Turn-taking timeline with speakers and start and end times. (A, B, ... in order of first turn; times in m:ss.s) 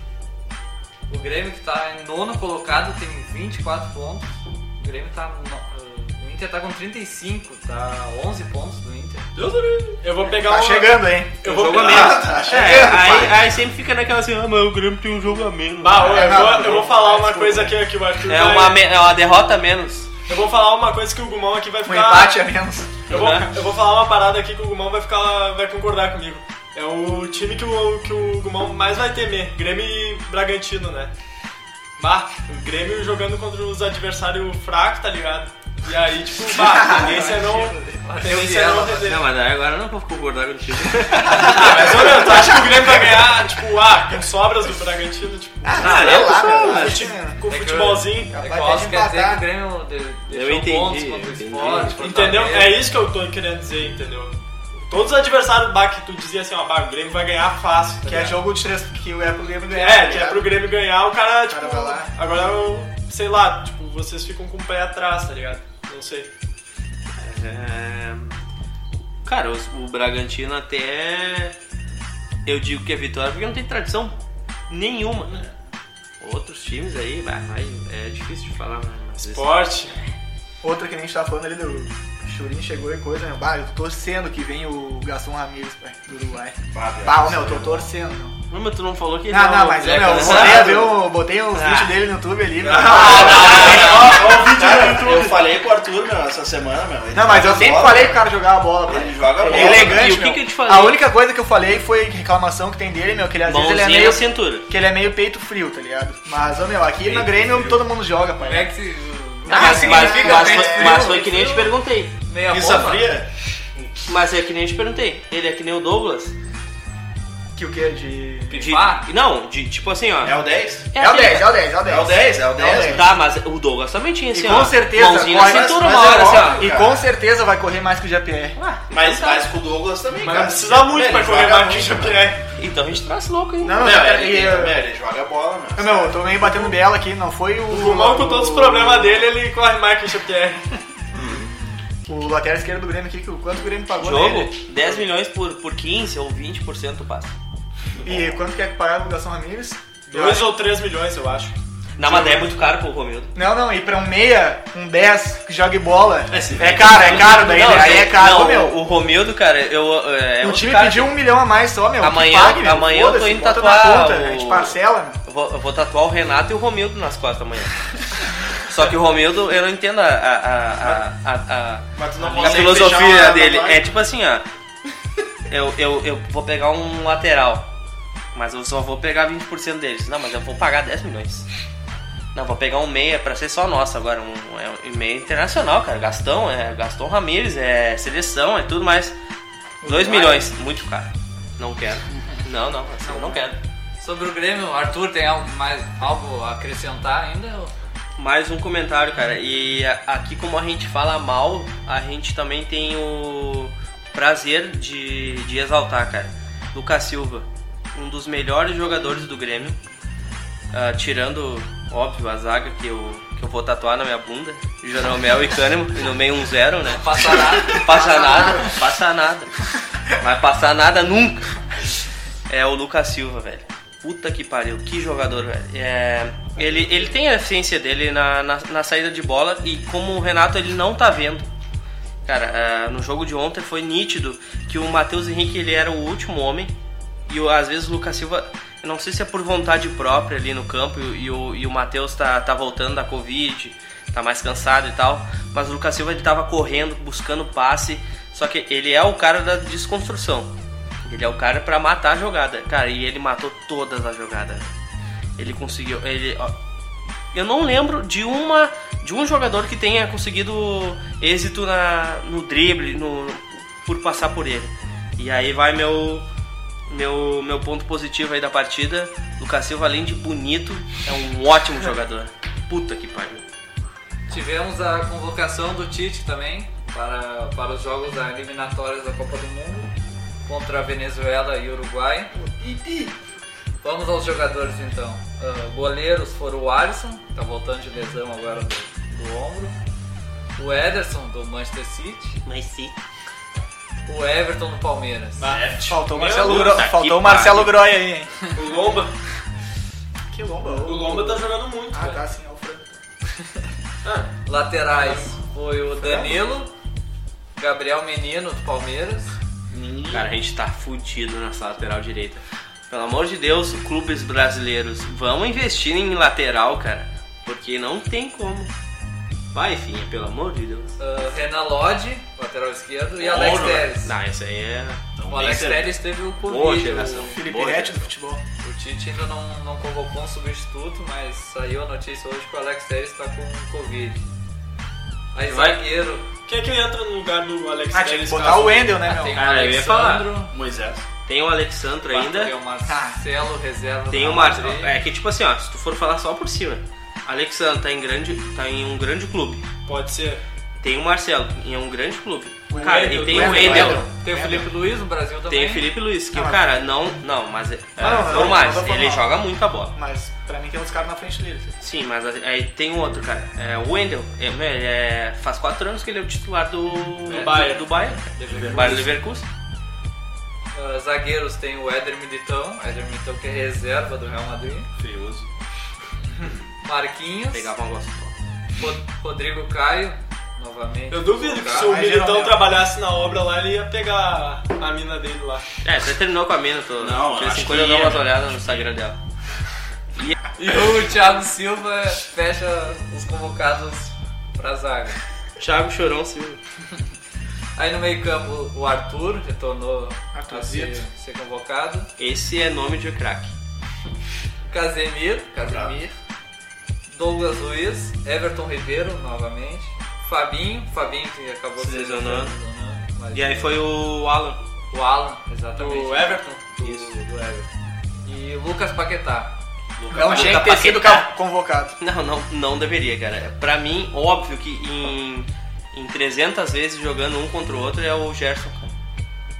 0:01.1-0:09.3 A
0:09.4-0:12.5 B
0:10.3-0:13.3 C
0:11.4-0:16.5 D
0:15.8-0:18.8 B
0:16.0-0:17.7 C
0:18.2-0:20.1 D
0:20.3-0:22.5 B
0:21.8-0:23.2 C
0:23.1-0:31.1 B
0:23.1-0:23.5 D
0:32.0-0:39.2 B
0:36.6-0:38.0 C
0:38.0-0:39.0 A
0:38.8-0:42.4 D
0:41.1-0:48.3 B
0:41.3-0:43.2 C
0:45.6-0:47.4 C
0:45.7-0:47.1 D
0:47.4-0:52.8 A
0:48.3-0:49.4 C
0:50.3-0:52.1 D
0:52.0-0:54.3 B
0:54.9-0:58.4 B
0:58.0-1:00.5 C
0:59.7-1:06.3 B
1:01.5-1:02.1 C
1:07.1-1:08.3 D
1:09.2-1:11.6 D
1:12.4-1:15.4 D
1:16.2-1:19.6 D
1:19.3-1:20.0 B
1:20.6-1:28.4 C
1:26.7-1:27.8 E
1:28.5-1:32.0 D
1:29.3-1:35.4 C
1:30.2-1:30.8 E
1:32.6-1:38.2 E
1:32.8-1:34.1 D
1:37.1-1:48.7 C
1:37.5-1:38.0 D
1:38.9-1:40.1 E
1:39.4-1:41.0 D
1:43.4-1:44.7 D
1:47.2-1:47.5 E
1:48.4-1:51.7 A
1:49.4-1:51.2 C
1:49.5-1:52.1 D
1:52.3-1:53.1 A
1:52.5-1:53.9 E
1:54.0-1:56.3 D
1:57.6-1:58.7 C
1:58.5-2:01.6 D
1:58.5-1:59.1 A
2:00.2-2:00.9 E
2:01.0-2:03.0 C
2:01.8-2:03.1 E
2:02.6-2:06.7 D
2:04.3-2:08.6 C
2:05.2-2:07.0 E
2:08.6-2:09.5 D
2:08.9-2:12.1 E
2:10.2-2:12.4 B
2:12.6-2:13.9 D
2:13.6-2:14.8 C
2:13.8-2:16.3 E
2:15.8-2:19.3 C
2:17.7-2:20.6 B
2:21.2-2:21.4 E
2:22.0-2:24.6 C
2:24.0-2:27.3 D
2:28.0-2:30.6 C
2:30.1-2:32.5 B
2:32.0-2:33.3 D
2:33.3-2:38.8 C
2:36.3-2:38.0 E
2:36.6-2:41.2 D
2:40.4-2:45.2 C
2:42.0-2:47.8 D
2:48.6-2:54.4 D
2:52.0-2:53.9 E
2:55.5-2:57.7 D
2:58.3-3:01.5 D
3:02.3-3:09.1 D
3:09.8-3:10.5 C
3:09.8-3:13.6 D
3:13.0-3:13.4 A
3:14.0-3:17.7 A
3:18.2-3:29.8 D
3:30.7-3:39.5 D
3:36.9-3:38.5 A
3:40.1-3:41.6 D
3:42.5-3:51.4 D
3:52.2-3:56.7 D
3:57.3-4:10.5 D
4:11.0-4:14.6 D
4:15.4-4:16.5 D
4:17.3-4:26.2 D
4:26.9-4:33.4 D
4:34.3-4:39.9 A
4:40.4-4:42.3 A
4:42.6-4:43.1 C
4:43.8-4:49.8 A
4:50.6-4:52.4 A
4:52.4-4:52.9 D
4:54.0-4:55.4 A
4:55.4-4:56.8 B
4:55.4-4:56.0 E
4:55.9-4:58.5 C
4:56.4-4:57.9 D
4:58.5-4:59.1 B
5:00.3-5:03.0 C
5:00.8-5:02.2 B
5:04.0-5:04.3 B
5:04.4-5:06.7 A
5:04.9-5:05.3 B
5:06.0-5:06.4 C
5:07.6-5:09.4 A
5:09.7-5:10.2 E
5:10.1-5:18.7 D
5:19.5-5:21.0 D
5:21.0-5:24.1 A
5:23.2-5:23.9 E
5:24.0-5:25.7 D
5:25.2-5:26.0 E
5:25.3-5:27.4 A
5:26.4-5:27.9 D
5:27.3-5:28.4 C
5:27.6-5:28.0 E
5:28.6-5:34.2 A
5:35.3-5:36.2 A
5:35.5-5:35.8 D
5:36.4-5:39.0 B
5:37.9-5:39.4 C
5:38.9-5:40.5 A
5:39.3-5:40.3 D
5:39.5-5:41.0 E
5:41.2-5:42.5 D
5:42.1-5:45.0 A
5:42.8-5:43.2 C
5:44.1-5:49.6 D
5:49.8-5:50.4 B
5:50.8-5:54.1 D
5:52.7-5:54.7 C
5:52.8-5:54.0 B
5:53.7-5:55.9 A
5:55.5-5:59.9 D
5:56.3-5:56.6 C
5:58.0-5:59.3 C
5:59.9-6:01.8 C
6:01.8-6:09.4 D
6:07.2-6:09.1 A
6:07.3-6:07.9 B
6:08.4-6:09.0 E
6:10.7-6:14.9 A
6:15.0-6:15.4 E
6:16.8-6:17.7 A
6:17.5-6:18.3 D
6:18.8-6:21.9 A
6:21.1-6:25.6 B
6:21.7-6:22.7 C
6:25.8-6:29.2 D
6:27.0-6:28.9 E
6:30.6-6:35.2 A
6:35.6-6:36.6 D
6:37.8-6:42.1 A
6:40.3-6:41.0 C
6:42.2-6:43.5 D
6:44.7-6:46.1 A
6:45.6-6:45.9 E
6:47.1-6:53.8 A
6:51.8-6:52.5 D
6:53.3-6:54.6 D
6:54.9-6:57.7 A
6:55.7-6:56.6 B
6:58.2-6:59.6 A
7:00.0-7:01.3 D
7:00.1-7:00.6 E
7:00.1-7:01.9 C
7:02.0-7:08.9 D